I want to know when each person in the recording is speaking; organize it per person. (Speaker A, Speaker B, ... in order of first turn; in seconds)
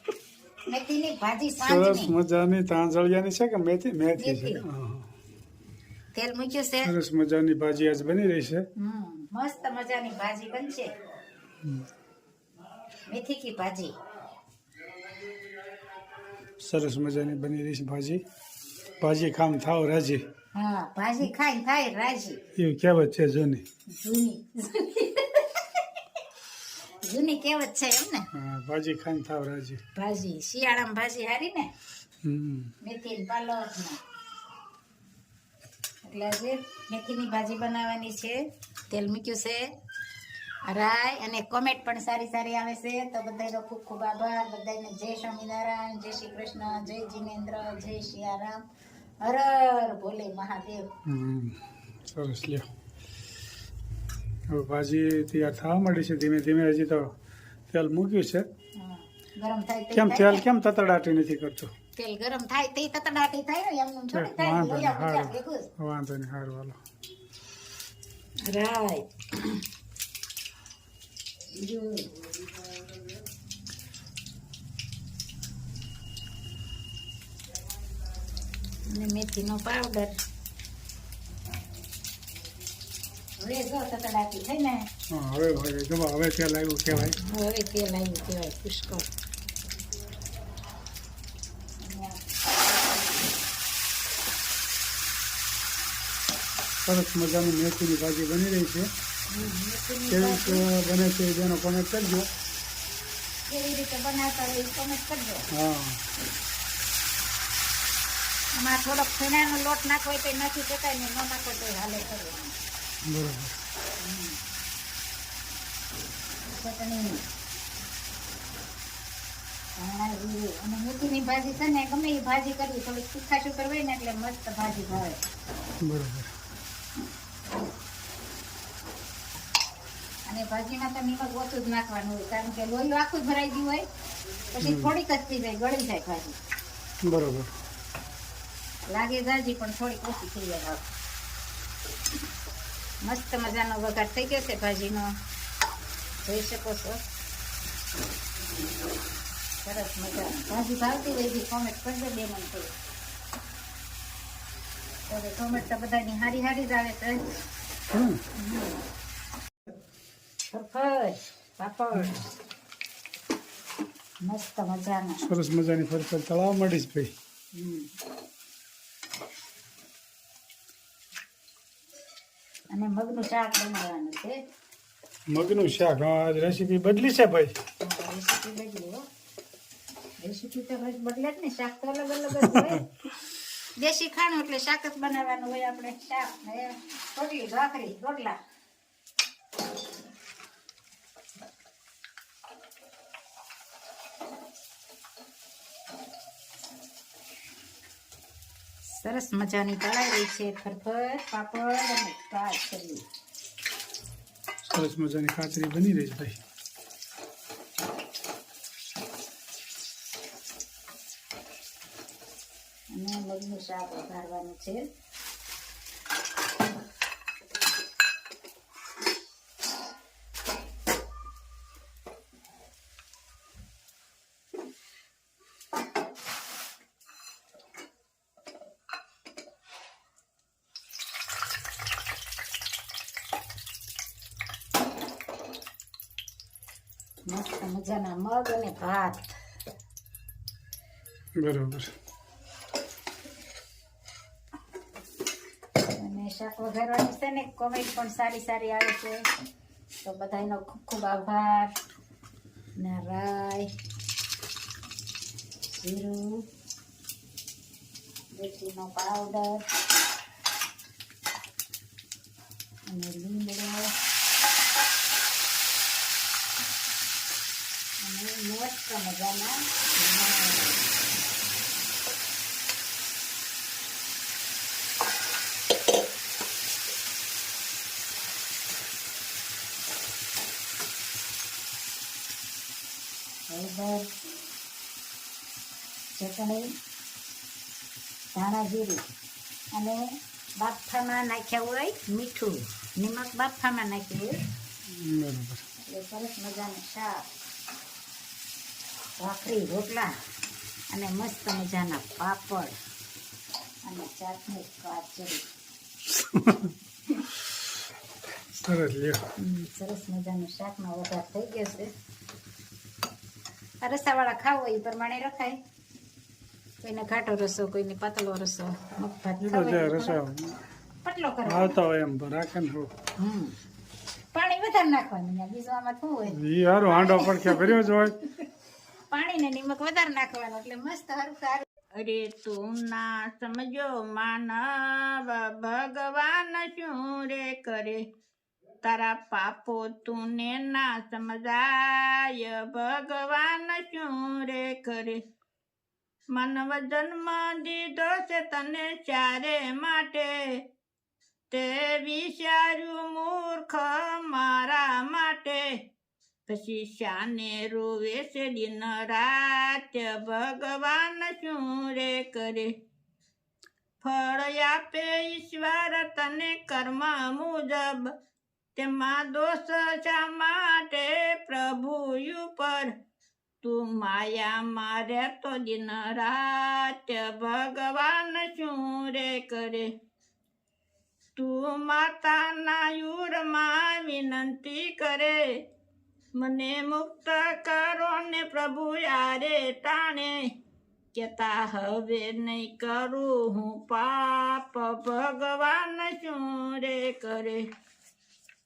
Speaker A: 0.7-2.1, 4.2-4.7, 6.2-6.9, 8.8-10.9, 13.1-13.9, 20.5-22.4, 23.9-25.9, 27.0-28.3, 29.9-31.7, 32.8-34.0, 36.0-39.7, 40.6-48.6, 49.2-50.9, 58.8-60.4, 62.0-65.7, 68.4-69.6, 71.5-72.1, 78.9-80.2, 83.4-84.9, 87.2-89.1, 91.8-93.2, 99.3-100.7, 103.5-105.5, 108.6-112.6, 114.0-114.4, 116.5-117.2, 119.8-125.2, 130.3-133.9, 134.5-136.4, 138.9-140.9, 143.0-145.2, 146.2-147.0, 149.6-152.7, 155.1-157.3, 158.4-158.8, 160.5-162.3, 164.2-165.3, 167.5-167.9, 172.7-174.4, 177.8-179.1, 180.2-182.9, 183.8-188.4, 198.9-203.0, 212.9-214.9, 237.3-239.4, 245.9-249.3, 250.0-251.7, 252.8-253.7, 255.7-256.4, 258.3-259.7, 262.9-263.9, 268.0-270.8, 283.5-284.1, 286.1-286.7, 288.3-289.1, 289.7-294.4, 295.9-297.3, 299.2-300.1, 300.9-302.8, 303.9-305.5, 309.4-311.9, 313.8-315.6, 316.8-320.2, 321.0-321.8, 323.2-323.6, 324.3-327.9, 329.1-331.7
Speaker B: 1.6-5.1, 6.8-8.7, 11.6-11.9, 16.5-18.2, 19.0-20.2, 22.6-23.6, 28.3-29.8, 32.2-32.7, 51.1-52.7, 54.5-57.1, 57.7-58.5, 59.9-61.7, 64.1-66.8, 85.1-87.2, 96.8-98.9, 100.1-102.3, 105.5-106.0, 113.0-113.6, 125.8-126.3, 134.6-134.9, 137.0-137.5, 157.9-158.2, 165.2-167.1, 175.3-177.6, 204.6-206.4, 241.4-241.9, 294.9-295.6, 306.2-306.7, 308.5-309.3, 319.4-320.6, 321.5-322.9, 326.3-328.2
Speaker C: 331.9-338.1, 338.8-345.2, 346.3-350.6, 351.5-355.8, 356.5-362.8, 364.0-368.1, 368.8-372.9, 373.6-379.9, 381.4-385.6, 386.4-390.5, 391.1-397.7